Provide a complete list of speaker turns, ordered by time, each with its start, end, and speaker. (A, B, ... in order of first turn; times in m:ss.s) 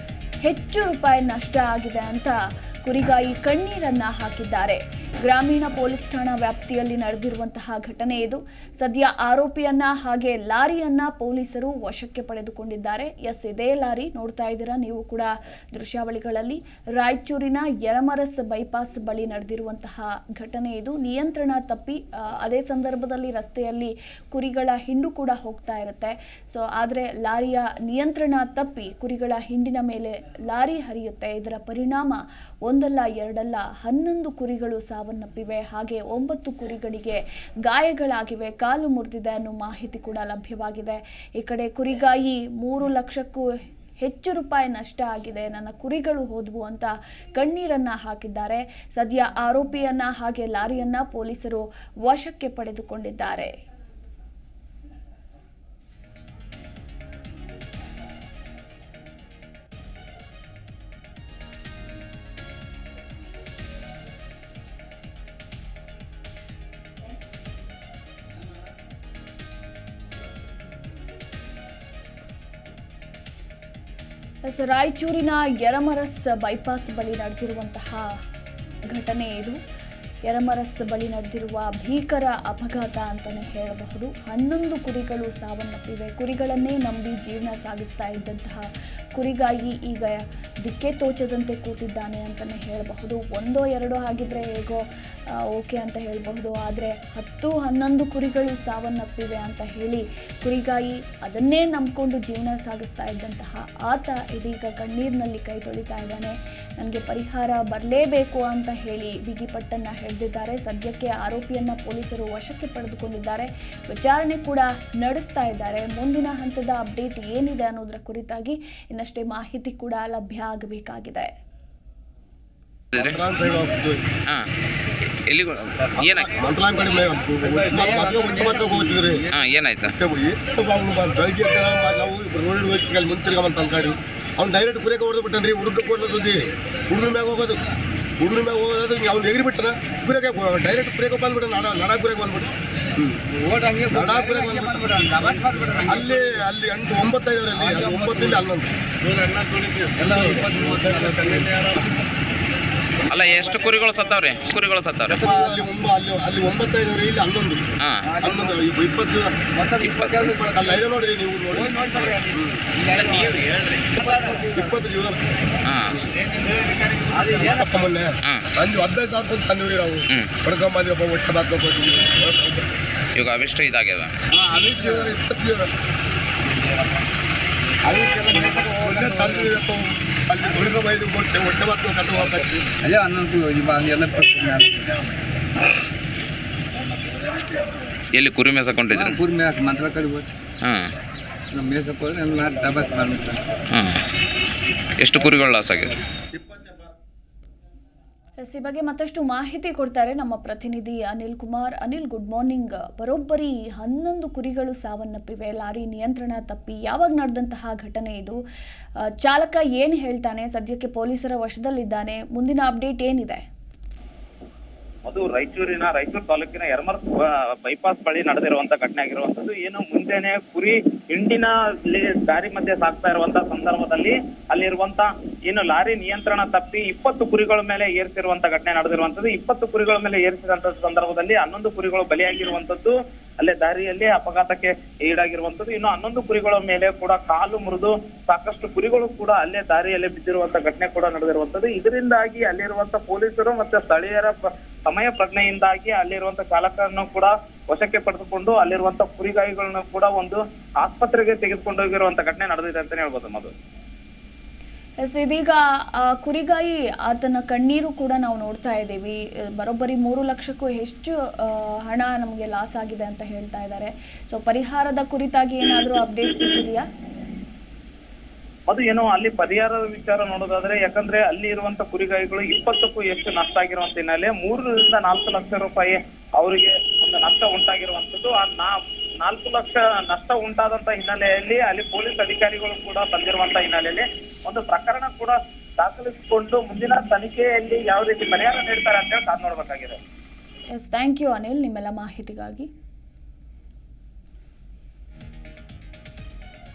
0:00.4-0:43.5 A
0:44.0-0:53.5 A
1:14.4-1:18.2 A
1:18.9-1:19.6 A
1:20.3-2:01.3 A
2:02.9-2:04.0 B
2:05.3-2:06.3 C
2:06.1-2:09.3 B
2:07.8-2:08.8 D
2:09.3-2:09.9 C
2:10.0-2:17.6 B
2:18.2-2:23.2 B
2:23.3-2:26.4 D
2:23.9-2:24.9 B
2:25.9-2:28.7 B
2:27.6-2:28.4 D
2:29.2-2:29.7 B
2:29.9-2:31.8 D
2:33.1-2:35.2 C
2:35.1-2:39.4 B
2:35.2-2:35.6 D
2:38.0-2:38.6 D
2:39.5-2:40.8 D
2:39.8-2:40.2 C
2:40.2-2:41.7 B
2:41.5-2:44.5 D
2:42.3-2:42.6 B
2:43.1-2:44.0 C
2:44.0-2:45.3 B
2:45.7-2:46.0 C
2:46.7-2:52.6 B
2:47.1-2:47.7 D
2:53.2-2:54.1 C
2:54.3-2:55.2 D
2:54.7-2:55.7 B
2:57.8-2:59.5 D
2:58.8-3:02.5 B
3:02.7-3:05.1 D
3:08.1-3:09.2 C
3:08.9-3:10.3 D
3:10.6-3:10.9 C
3:11.5-3:13.6 D
3:13.7-3:14.0 C
3:15.0-3:16.0 C
3:16.3-3:16.9 B
3:18.4-3:28.4 A
3:29.2-3:33.4 A
3:35.1-3:37.1 E
3:37.6-4:04.4 E
4:04.9-4:13.5 E
4:15.0-4:26.8 A
4:28.7-4:50.0 E
4:50.8-4:52.7 A